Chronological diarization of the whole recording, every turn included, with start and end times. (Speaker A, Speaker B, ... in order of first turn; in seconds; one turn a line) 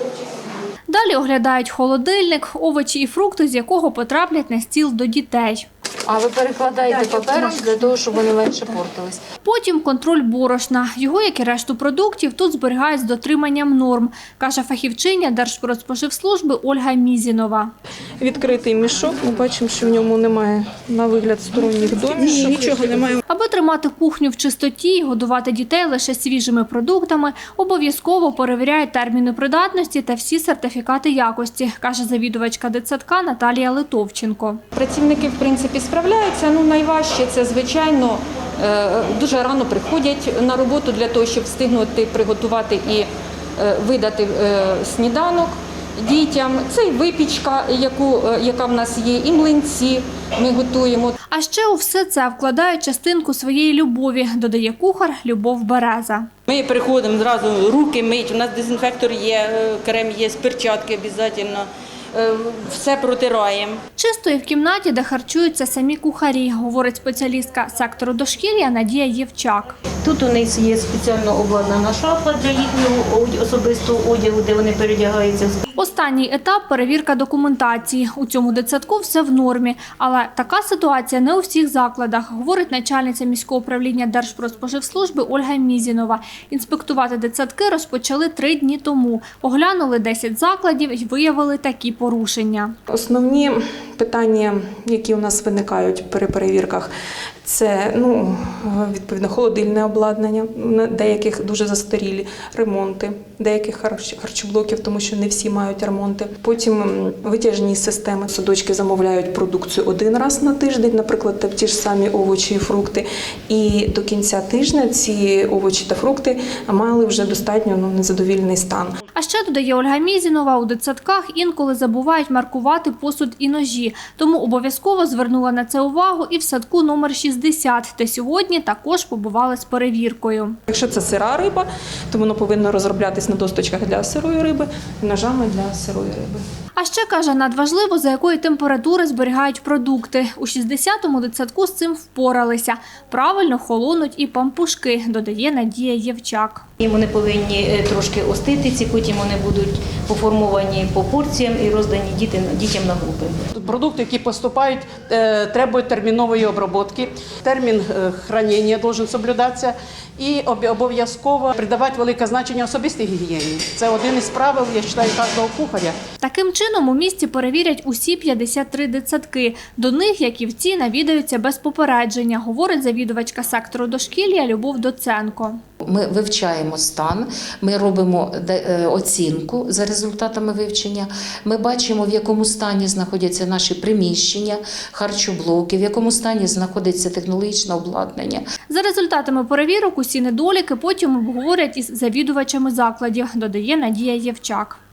Speaker A: 0.9-5.7
Speaker B: 7.1-7.5
Speaker A: 9.4-17.7
Speaker C: 18.2-23.2
Speaker A: 23.3-34.6
Speaker D: 34.7-51.1
Speaker A: 51.3-56.3
Speaker E: 56.7-61.7
Speaker D: 60.3-60.8
Speaker D: 62.2-63.7
Speaker A: 64.0-69.8
Speaker B: 70.0-75.6
Speaker A: 75.8-92.7
Speaker C: 92.9-96.9
Speaker C: 97.4-118.9
Speaker A: 119.2-130.6
Speaker C: 130.7-136.4
Speaker A: 136.8-146.7
Speaker B: 146.8-153.4
Speaker F: 153.5-166.0
Speaker A: 166.2-175.6
Speaker G: 175.8-188.5
Speaker A: 188.7-194.8